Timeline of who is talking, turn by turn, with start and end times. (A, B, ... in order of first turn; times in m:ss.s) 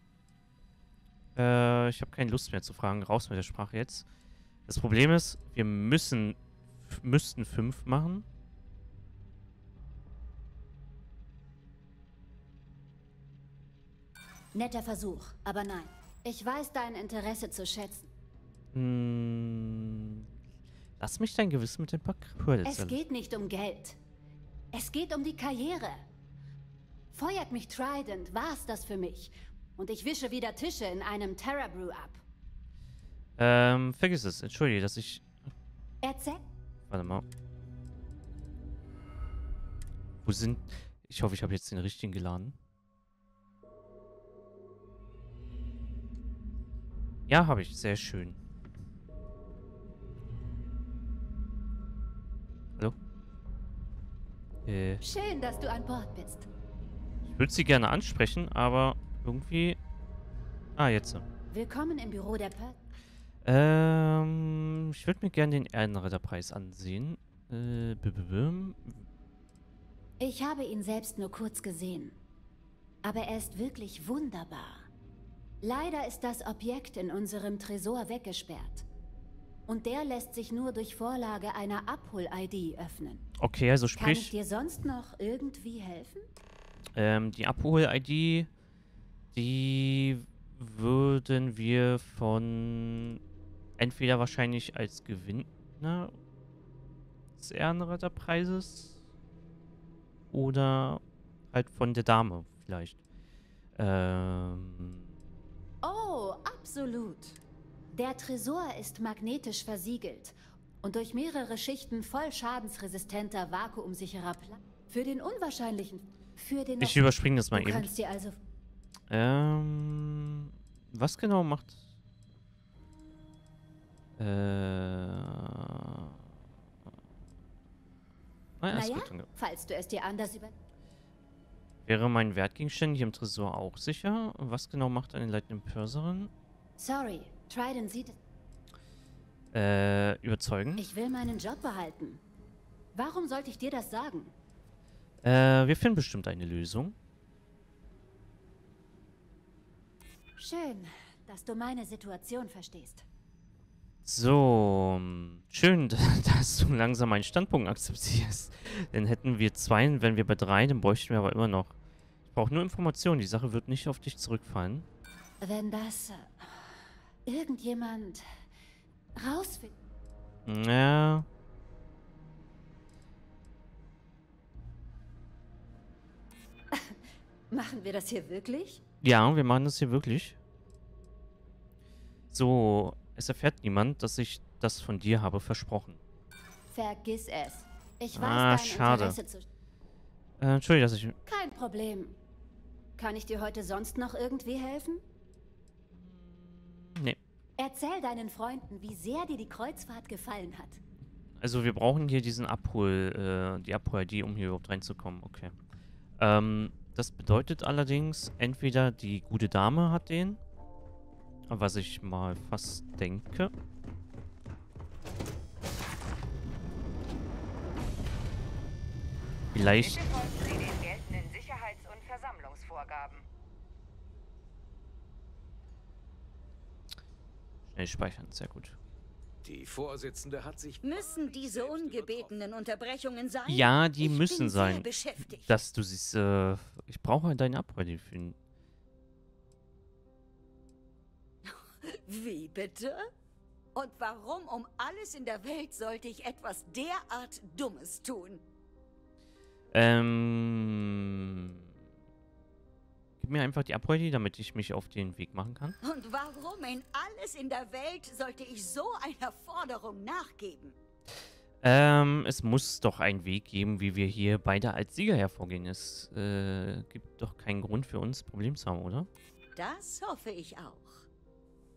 0:01.4-0:04.1 A
0:04.7-0:08.3 A
0:14.5-0:18.1 B
0:18.7-0:20.3 A
0:21.0-0:23.0 A
0:22.6-0:24.0 B
0:24.7-0:26.0 B
0:27.1-0:32.2 B
0:33.4-0:35.2 A
0:36.0-0:36.4 B
0:36.9-0:37.2 A
0:40.2-0:42.6 A
0:47.3-0:48.4 A
0:54.7-0:55.0 A
0:55.0-0:56.5 B
0:57.3-0:59.8 A
1:00.8-1:01.2 A
1:01.5-1:02.8 B
1:03.4-1:09.0 A
1:10.2-1:12.2 B
1:13.0-1:14.9 B
1:15.6-1:18.8 B
1:19.7-1:23.2 B
1:23.4-1:24.3 A
1:24.0-1:26.2 B
1:27.0-1:28.5 A
1:29.3-1:33.2 A
1:33.8-1:36.2 A
1:37.4-1:39.0 A
1:40.3-1:43.0 A
1:43.8-1:45.1 A
1:45.8-1:47.4 B
1:47.9-1:58.4 B
1:56.8-1:57.9 A
1:59.1-2:01.8 A
2:04.2-2:06.2 A
2:08.6-2:09.3 A
2:08.7-2:10.5 B
2:11.9-2:16.3 A
2:16.8-2:18.2 B
2:19.5-2:20.8 A
2:20.8-2:22.2 B
2:22.9-2:24.3 B
2:25.2-2:27.0 A
2:30.4-2:33.1 B
2:34.0-2:41.8 A
2:42.3-2:44.9 A
2:45.4-2:48.3 B
2:49.2-2:49.7 B
2:50.5-2:51.3 A
2:56.7-2:58.8 B
2:59.0-3:00.4 A
3:02.3-3:06.0 A
3:06.7-3:09.5 B
3:08.2-3:09.2 A
3:10.4-3:11.2 A
3:11.3-3:12.2 B
3:13.0-3:15.0 B
3:15.9-3:17.2 A
3:17.6-3:20.8 B
3:21.4-3:25.5 A
3:26.2-3:30.4 A
3:31.5-3:33.5 A
3:39.5-3:40.0 A
3:39.7-3:43.2 C
3:47.7-3:48.8 A
3:49.4-3:52.4 D
3:50.8-3:55.5 E
3:53.5-3:58.4 A
4:01.4-4:03.0 E
4:03.8-4:08.4 E
4:09.7-4:11.7 A
4:13.2-4:15.8 A
4:15.8-4:20.8 E
4:21.6-4:29.1 A
4:29.6-4:31.1 E